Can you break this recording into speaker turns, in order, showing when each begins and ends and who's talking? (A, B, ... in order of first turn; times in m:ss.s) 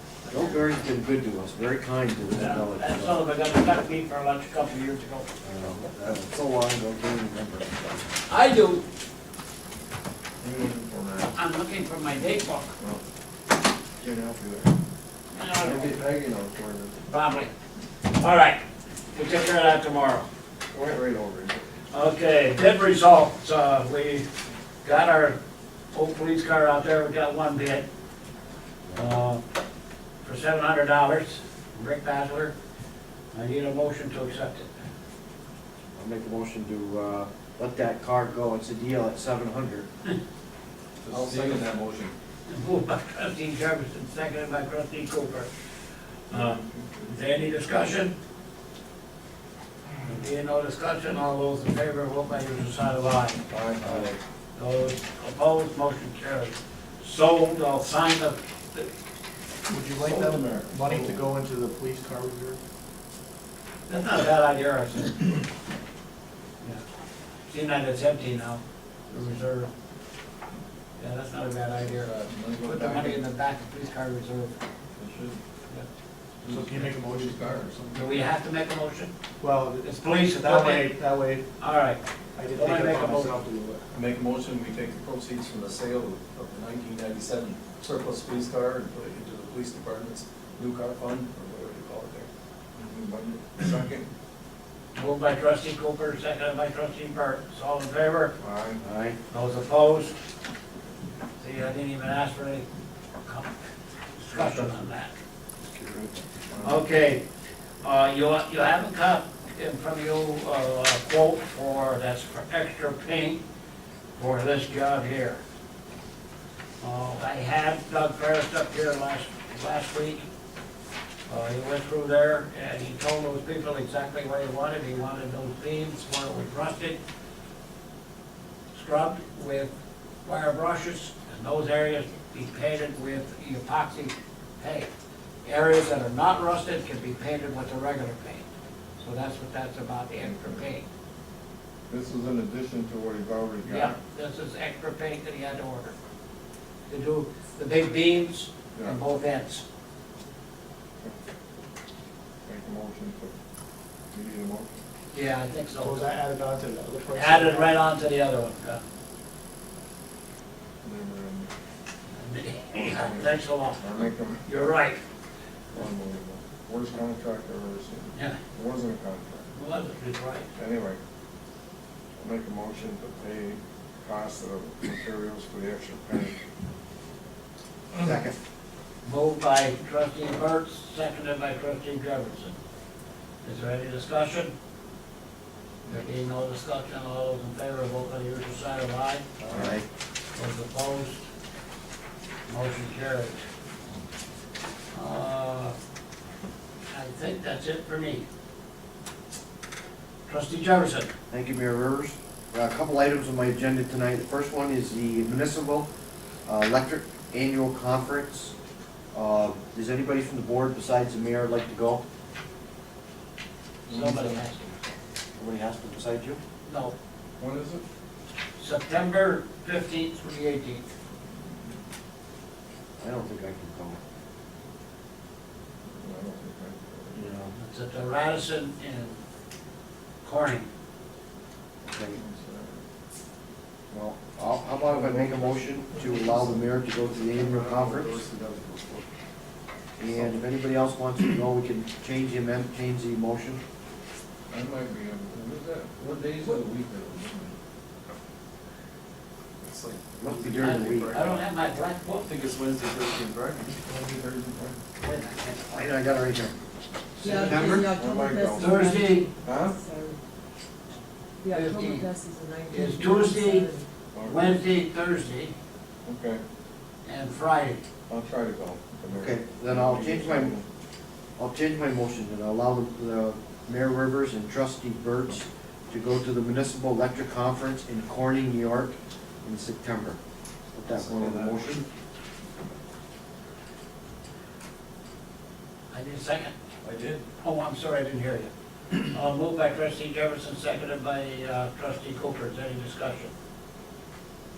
0:00.3-0:03.2 A
0:02.3-0:05.3 B
0:05.4-0:08.0 A
0:08.3-0:08.8 B
0:10.4-0:11.3 C
0:11.3-0:12.8 B
0:14.0-0:14.7 C
0:15.3-0:16.0 B
0:15.6-0:16.9 C
0:17.0-0:17.5 B
0:18.1-0:18.6 B
0:19.1-0:20.2 B
0:20.7-0:21.6 C
0:21.9-0:24.2 B
0:24.8-0:25.4 B
0:25.9-0:27.8 B
0:28.9-0:29.1 A
0:28.9-0:29.4 B
0:30.2-0:32.5 B
0:33.3-0:34.7 B
0:36.0-0:39.9 A
0:41.0-0:42.1 D
0:41.1-0:41.6 C
0:42.4-0:45.5 B
0:46.3-0:48.1 B
0:46.3-0:47.1 C
0:50.0-0:58.9 B
0:53.5-0:54.2 D
0:59.7-1:02.6 E
1:00.0-1:01.2 D
1:03.9-1:05.3 B
1:07.5-1:09.7 B
1:11.0-1:14.6 B
1:12.0-1:12.3 D
1:12.3-1:13.2 C
1:15.0-1:15.4 C
1:16.4-1:18.1 E
1:17.4-1:17.7 C
1:17.9-1:19.1 B
1:19.4-1:21.5 E
1:19.8-1:20.9 B
1:21.6-1:22.0 B
1:22.4-1:23.9 E
1:22.5-1:23.4 B
1:23.9-1:32.3 D
1:32.7-1:34.1 C
1:33.6-1:33.9 D
1:34.9-1:38.3 B
1:38.4-1:38.8 C
1:38.8-1:39.2 A
1:39.3-1:40.1 B
1:41.4-1:42.6 B
1:43.2-1:43.5 B
1:44.2-1:45.1 B
1:44.4-1:44.6 C
1:46.0-1:46.9 C
1:46.6-1:47.2 B
1:47.8-1:53.4 B
1:54.2-1:55.4 B
1:56.8-2:00.2 B
2:01.3-2:07.0 B
2:08.7-2:09.7 B
2:10.2-2:14.9 B
2:15.4-2:18.5 B
2:19.0-2:20.8 B
2:20.2-2:20.7 C
2:21.9-2:24.0 C
2:23.6-2:25.9 B
2:26.9-2:29.6 B
2:28.7-2:29.0 C
2:32.4-2:33.3 C
2:34.1-2:34.8 C
2:35.1-2:36.1 B
2:35.8-2:37.8 E
2:37.1-2:38.8 B
2:40.8-2:41.5 C
2:42.2-2:45.0 B
2:42.7-2:44.4 C
2:45.7-2:49.5 C
2:49.5-2:50.5 B
2:50.5-2:51.0 C
2:52.2-2:56.4 C
2:58.0-2:58.3 A
2:59.0-3:02.6 B
3:03.4-3:04.5 B
3:05.9-3:09.3 B
3:09.4-3:09.7 D
3:09.5-3:09.8 A
3:10.3-3:11.2 B
3:12.5-3:13.4 B
3:14.9-3:15.7 B
3:16.9-3:18.2 B
3:20.3-3:21.1 B
3:21.3-3:25.9 A
3:26.4-3:28.5 A
3:29.1-3:32.0 A
3:33.9-3:34.8 B
3:33.9-3:34.3 C
3:35.4-3:36.4 A
3:36.7-3:36.9 B
3:37.4-3:37.8 C
3:38.6-3:40.8 B
3:43.0-3:44.0 A
3:45.8-3:47.3 C
3:47.1-3:47.5 A
3:47.5-3:49.2 B
3:50.2-3:50.7 B
3:51.8-3:52.2 A
3:52.1-3:52.8 C
3:53.9-3:58.2 A
3:54.9-3:56.6 C
3:57.2-3:59.0 D
4:00.0-4:03.6 A
4:04.5-4:07.6 C
4:09.6-4:11.4 D
4:10.2-4:11.2 A
4:10.6-4:12.3 B
4:12.2-4:14.4 D
4:14.5-4:14.8 C
4:15.0-4:16.2 B
4:15.7-4:16.6 A
4:17.2-4:17.9 A
4:17.2-4:20.2 F
4:17.7-4:18.7 C
4:18.6-4:19.3 B
4:19.4-4:19.8 C
4:21.4-4:23.9 F
4:21.5-4:22.1 B
4:22.7-4:23.7 B
4:24.1-4:24.5 C
4:24.2-4:25.5 B
4:26.0-4:26.4 C
4:27.0-4:27.8 B
4:28.1-4:30.6 C
4:29.1-4:30.5 A
4:31.4-4:40.2 A
4:40.7-4:41.8 A
4:40.9-4:41.8 D
4:45.9-4:46.5 B
4:46.8-4:47.2 D
4:47.4-4:48.5 B
4:49.0-4:53.3 B